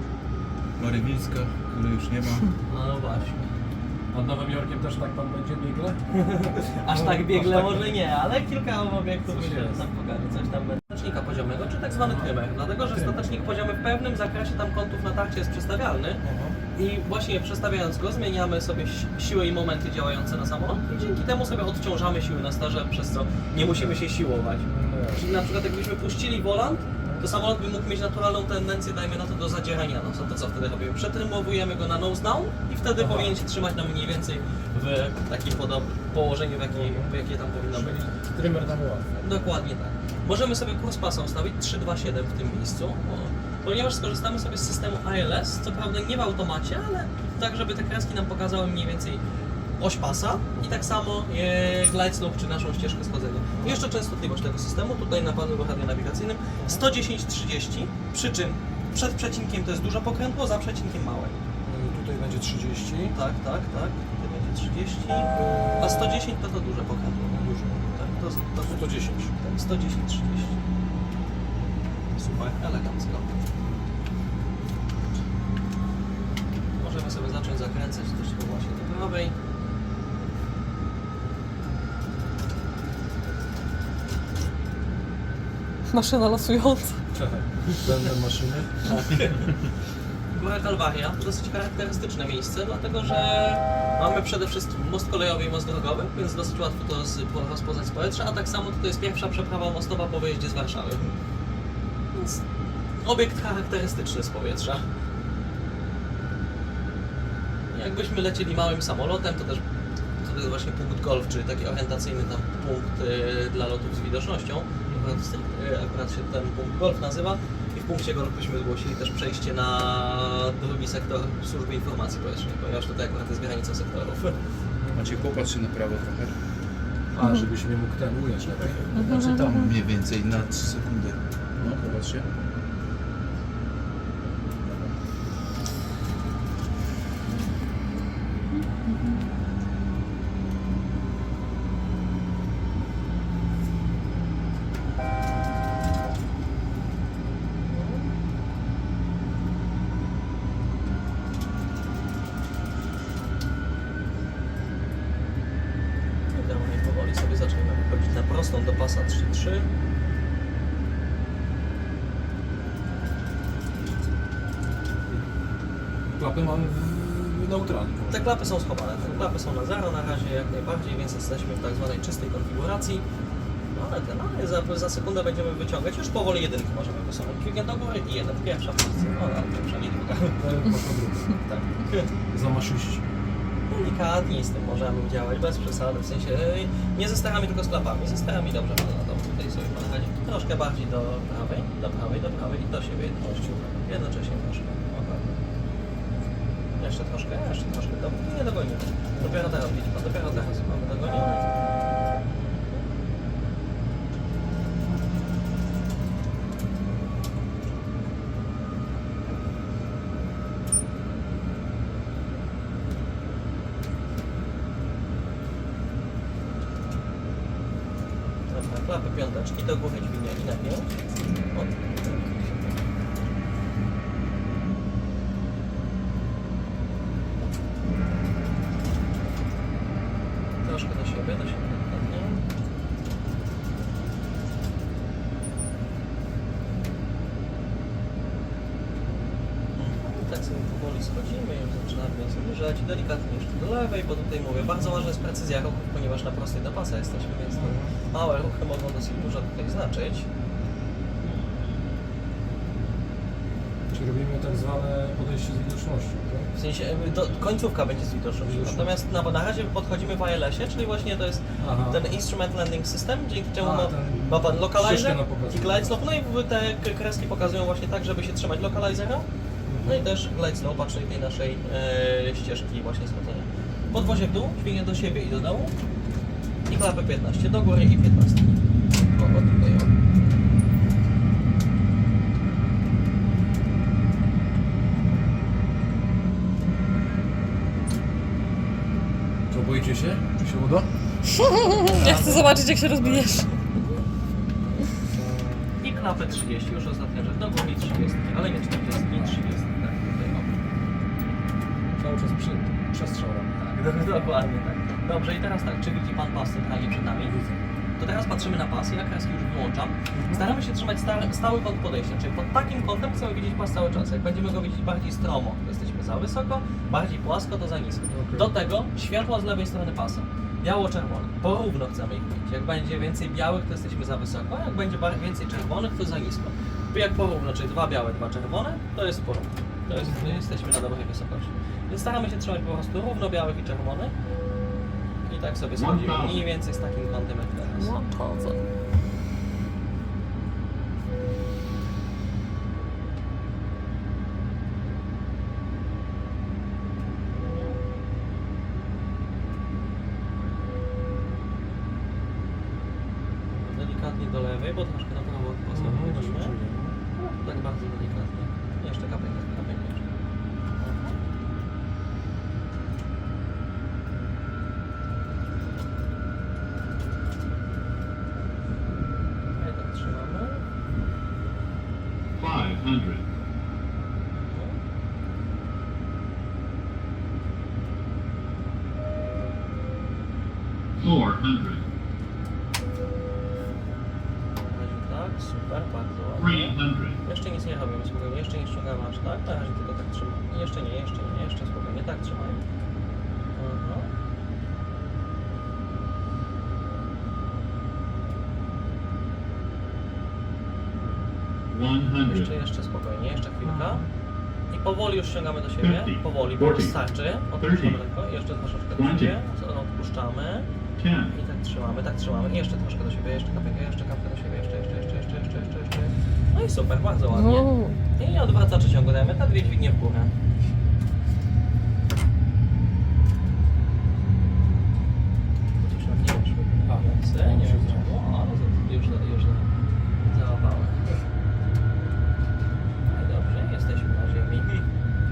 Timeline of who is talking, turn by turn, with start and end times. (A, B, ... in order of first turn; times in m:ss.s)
0:00.8-0:02.5 A
0:02.7-0:03.5 B
0:04.1-0:07.9 C
0:06.1-0:16.2 B
0:09.2-0:09.8 C
0:12.0-0:12.3 C
0:12.8-0:13.5 C
0:16.2-0:16.6 C
0:16.7-0:49.2 B
0:23.5-0:24.0 C
0:24.6-0:25.4 C
0:27.0-0:27.3 C
0:33.0-0:33.4 C
0:36.7-0:39.6 C
0:49.8-1:01.4 B
0:53.6-0:53.8 C
0:56.6-0:56.8 C
1:01.6-1:03.2 C
1:03.1-1:10.6 B
1:07.3-1:09.3 C
1:12.2-1:13.3 B
1:16.8-1:19.4 B
1:25.9-1:27.0 D
1:27.1-1:29.1 C
1:29.1-1:29.5 B
1:30.3-1:41.2 B
1:42.1-1:42.4 B
1:43.0-1:44.8 B
1:47.7-1:49.6 B
1:50.2-2:04.4 B
1:54.8-1:55.2 C
2:04.8-2:05.3 C
2:04.9-2:06.4 A
2:07.1-2:09.2 C
2:09.0-2:09.7 D
2:09.0-2:12.3 A
2:11.6-2:12.0 C
2:18.8-2:19.2 D
2:27.7-2:28.1 B
2:36.3-2:39.7 B
2:46.2-2:48.3 C
2:48.1-2:53.0 B
2:53.7-3:00.4 B
3:00.4-3:03.0 C
3:03.7-3:15.3 B
3:13.2-3:13.8 C
3:16.8-3:21.5 B
3:19.1-3:21.3 C
3:38.5-3:40.9 B
3:41.5-3:42.9 B
3:50.6-3:52.4 B
3:59.7-4:10.3 B
4:04.8-4:05.0 C
4:07.5-4:07.9 C
4:13.9-4:16.5 C
4:16.5-4:29.3 B
4:18.4-4:19.0 C
4:21.6-4:22.1 C
4:23.6-4:26.0 C
4:29.7-4:30.1 C
4:29.8-4:35.7 B
4:34.0-4:34.2 C
4:36.7-4:39.9 B
4:49.5-4:50.9 C
4:51.3-4:53.5 D
4:51.8-4:53.5 B
4:54.9-4:55.7 C
4:55.8-5:00.6 B
4:59.1-4:59.4 C
5:01.8-5:03.8 C
5:03.7-5:07.3 B
5:07.2-5:07.7 C
5:08.0-5:34.1 B
5:10.1-5:10.5 C
5:18.1-5:18.5 C
5:30.0-5:30.4 C
5:35.2-5:38.0 B
5:35.7-5:36.5 E
5:37.7-5:38.6 D
5:47.4-5:47.8 B
5:53.5-5:56.6 B
5:55.7-5:57.0 C
5:57.2-6:00.1 B
6:00.8-6:01.2 B
6:09.5-6:10.6 B
6:12.4-6:13.2 E
6:14.5-6:14.8 B
6:21.0-6:21.8 E
6:24.5-6:32.6 B
6:26.4-6:27.2 E
6:33.5-6:34.1 B
6:41.7-6:42.6 E
6:42.2-6:44.0 B
6:43.6-6:44.1 C
6:44.7-6:50.7 B
6:45.8-6:48.1 E
6:48.9-6:49.4 E
6:51.0-6:51.4 E
6:51.3-7:00.3 B
6:57.3-6:58.0 D
7:05.8-7:11.2 B
7:06.8-7:08.1 C
7:13.0-7:14.8 B